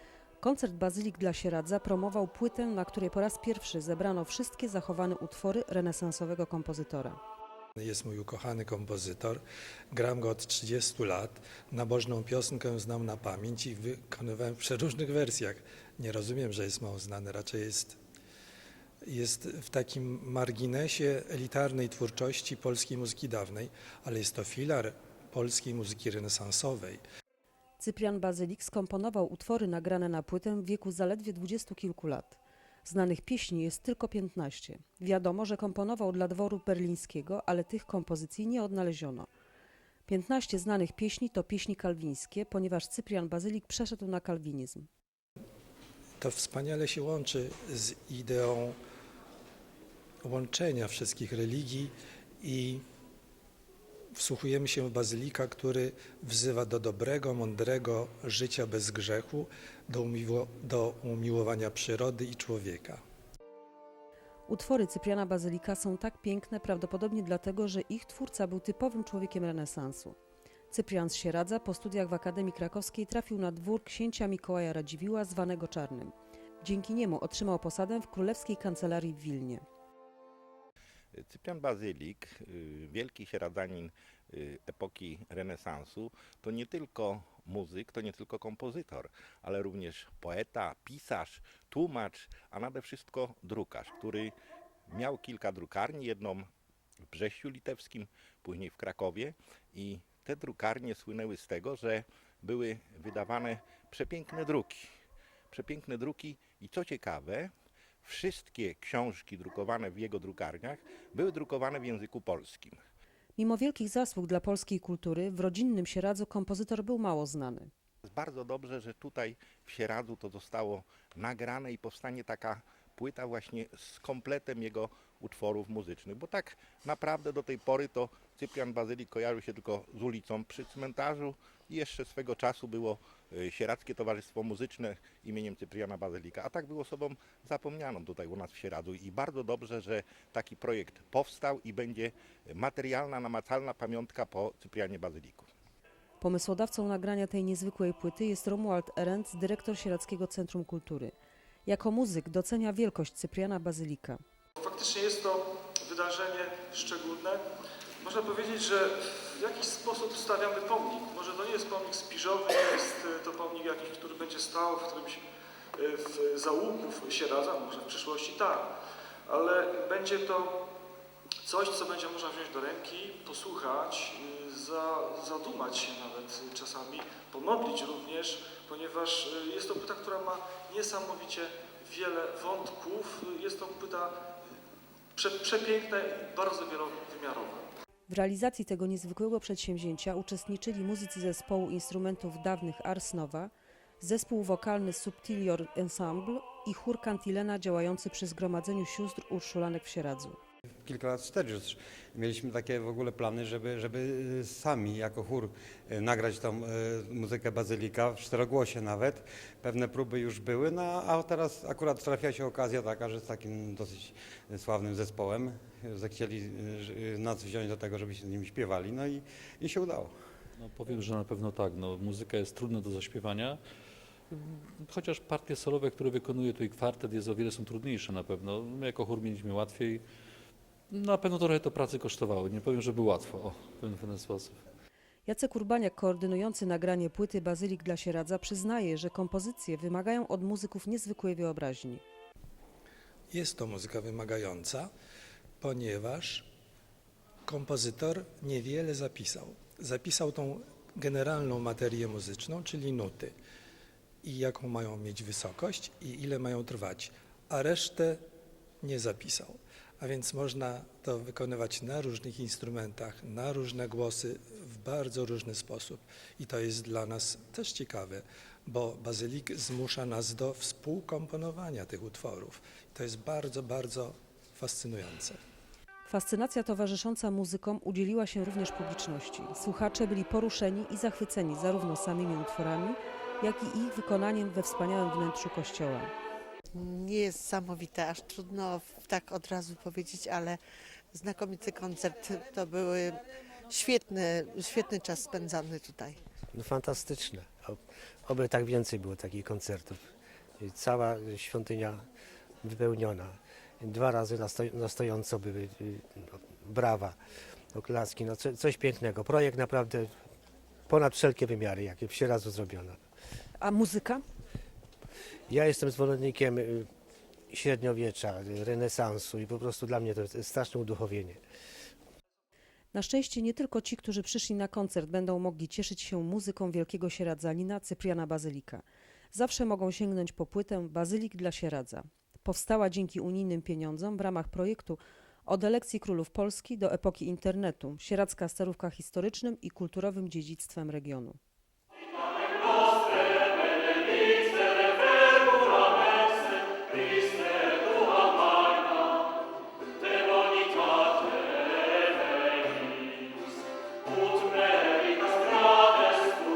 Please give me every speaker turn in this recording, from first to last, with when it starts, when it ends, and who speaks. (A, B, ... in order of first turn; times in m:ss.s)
0:00.4-0:07.2 A
0:07.8-0:09.4 B
0:09.9-0:18.0 B
0:19.0-0:27.0 B
0:27.8-0:39.3 A
0:40.1-0:44.9 A
0:46.2-0:48.8 B
0:50.2-0:52.8 B
0:54.2-1:03.0 B
1:04.5-1:10.2 A
1:10.7-1:19.6 A
1:21.1-1:34.3 C
1:34.9-1:36.5 C
1:37.1-1:44.9 C
1:45.5-1:47.5 C
1:48.0-1:52.8 C
1:53.4-1:57.7 A
1:58.1-2:25.5 C
2:26.2-2:31.1 A
2:31.7-2:34.2 A
2:34.6-2:37.4 D
2:38.0-2:45.2 D
2:45.8-2:48.7 D
2:49.3-2:50.6 D
2:51.4-3:04.2 D
3:05.2-3:07.7 D
3:08.1-3:20.4 A
3:20.8-3:40.2 E
3:40.6-3:43.6 F
3:44.4-3:50.0 F
3:50.9-3:54.6 F
3:55.3-4:02.0 A
4:03.3-4:04.9 B
4:05.6-4:06.5 B
4:07.5-4:13.3 B
4:14.2-4:18.2 B
4:18.8-4:35.4 B
4:36.1-4:46.1 A
4:46.7-4:50.6 G
4:51.1-4:56.2 G
4:56.5-5:00.0 H
5:00.6-5:02.1 H
5:02.6-5:07.2 H
5:07.7-5:10.1 H
5:10.9-5:13.0 H
5:13.6-5:14.2 A
5:15.5-5:16.9 H
5:17.5-5:21.4 H
5:22.9-5:41.4 A